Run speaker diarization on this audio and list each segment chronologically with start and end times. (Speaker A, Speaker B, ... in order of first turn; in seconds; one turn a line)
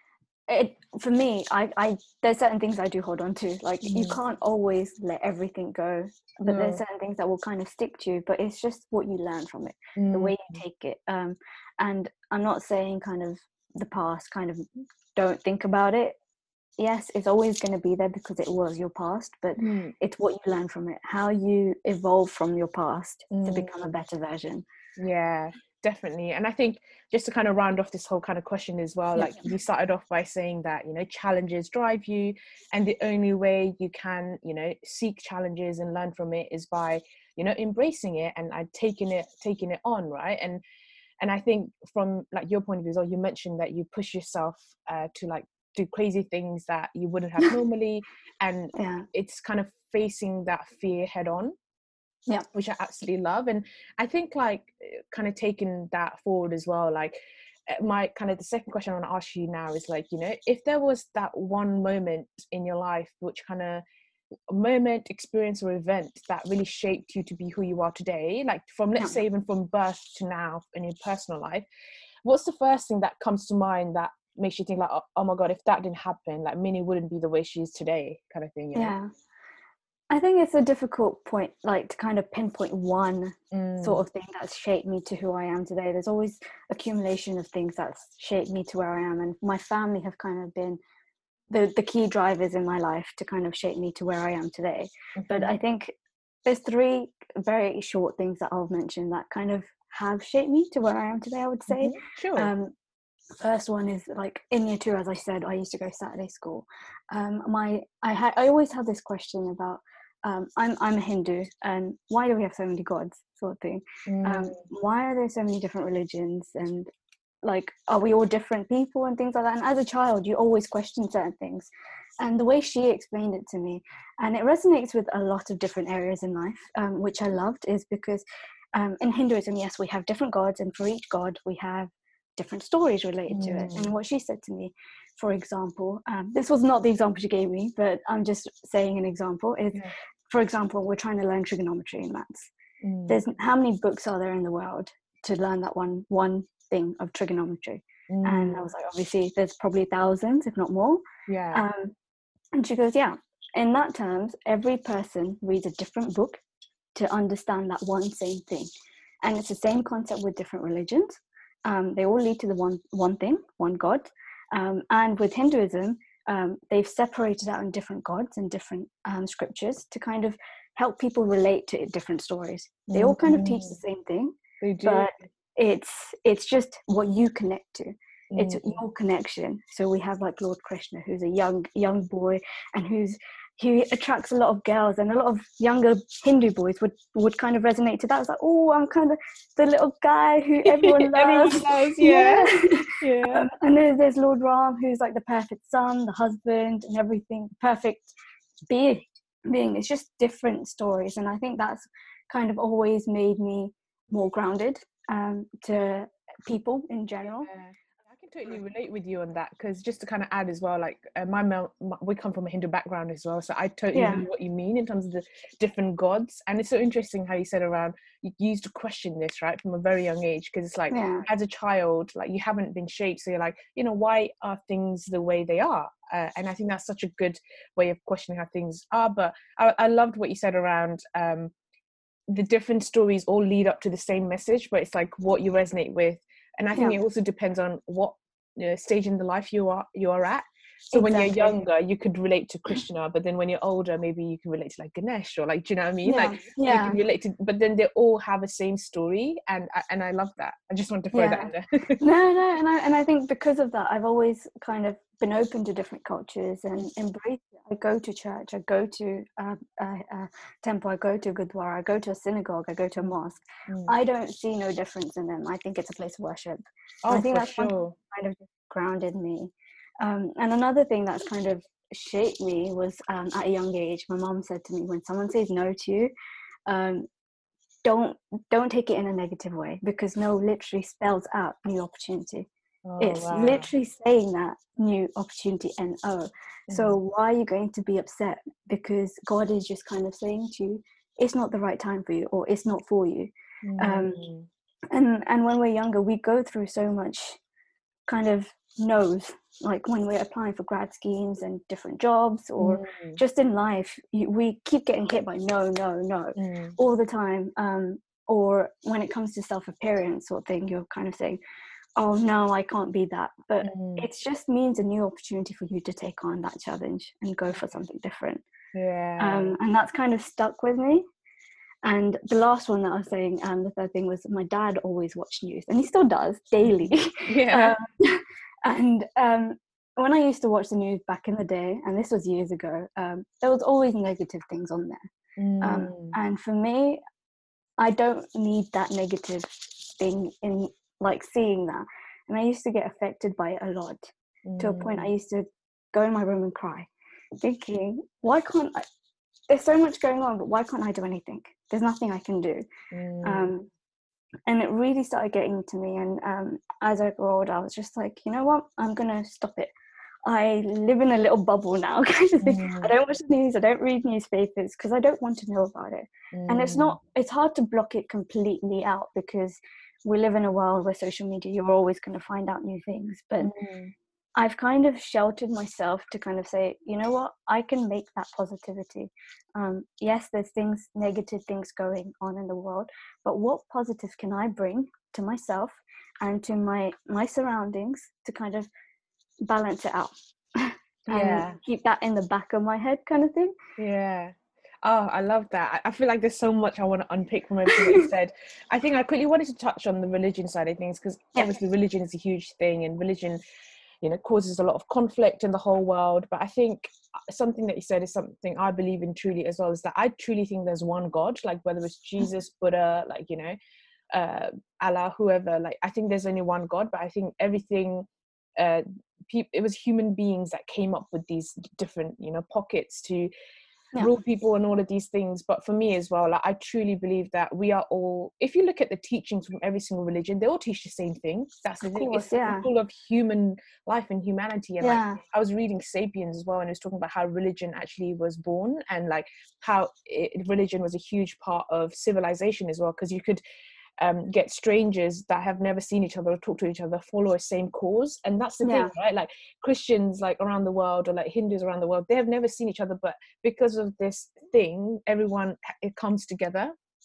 Speaker A: 0.5-14.6
Speaker B: 3.9-4.2
Speaker B: 6.5-6.8
Speaker B: 9.9-10.6
Speaker A: 15.2-16.2
Speaker A: 16.8-24.6
Speaker B: 19.6-19.9
Speaker B: 23.3-23.9
Speaker B: 25.0-40.6
Speaker A: 29.1-29.5
Speaker B: 41.2-51.5
Speaker A: 48.7-49.0
Speaker B: 52.5-57.2
Speaker B: 57.7-63.8
Speaker B: 64.5-71.7
Speaker B: 72.2-78.9
Speaker A: 78.7-79.1
Speaker A: 80.1-90.8
Speaker B: 83.5-84.0
Speaker A: 91.5-102.7
Speaker B: 95.2-95.5
Speaker B: 101.7-102.5
Speaker A: 103.4-116.9
Speaker B: 114.1-114.6
Speaker A: 117.4-121.7
Speaker A: 122.2-142.5
Speaker B: 133.3-133.9
Speaker B: 142.8-143.2
Speaker A: 143.1-151.0
Speaker B: 148.1-148.6
Speaker B: 151.3-151.6
Speaker A: 151.5-151.9
Speaker A: 152.5-156.4
Speaker A: 156.9-158.7
Speaker A: 159.2-198.1
Speaker B: 172.9-173.7
Speaker B: 174.6-175.1
Speaker B: 178.3-178.8
Speaker B: 190.7-193.4
Speaker A: 198.7-207.5
Speaker B: 207.4-231.5
Speaker A: 213.9-214.2
Speaker A: 220.9-221.2
Speaker B: 232.3-252.0
Speaker A: 240.9-241.6
Speaker A: 246.0-247.0
Speaker A: 251.1-276.1
Speaker B: 263.7-263.9
Speaker B: 267.0-267.9
Speaker A: 276.7-277.1
Speaker A: 277.8-282.5
Speaker B: 282.9-283.7
Speaker A: 283.0-294.2
Speaker B: 293.6-294.5
Speaker A: 294.9-297.4
Speaker A: 298.1-311.4
Speaker B: 302.6-303.2
Speaker B: 306.4-306.7
Speaker A: 312.0-318.4
Speaker B: 313.6-314.1
Speaker B: 318.7-319.5
Speaker A: 319.2-321.0
Speaker A: 321.8-335.1
Speaker B: 326.8-327.8
Speaker B: 335.4-336.1
Speaker A: 335.6-337.0
Speaker A: 337.8-346.9
Speaker B: 344.5-345.1
Speaker A: 347.4-348.8
Speaker A: 349.5-352.6
Speaker B: 352.9-353.5
Speaker A: 353.2-353.7
Speaker A: 354.5-359.7
Speaker A: 360.2-373.5
Speaker B: 362.4-362.9
Speaker B: 366.3-367.0
Speaker B: 373.4-373.9
Speaker A: 374.4-388.7
Speaker A: 389.4-393.5
Speaker B: 391.1-391.6
Speaker B: 393.8-403.4
Speaker A: 397.7-398.1
Speaker B: 404.0-413.6
Speaker B: 414.1-423.3
Speaker B: 424.0-443.4
Speaker A: 431.8-432.7
Speaker A: 434.8-435.2
Speaker B: 444.0-456.7
Speaker A: 448.6-448.9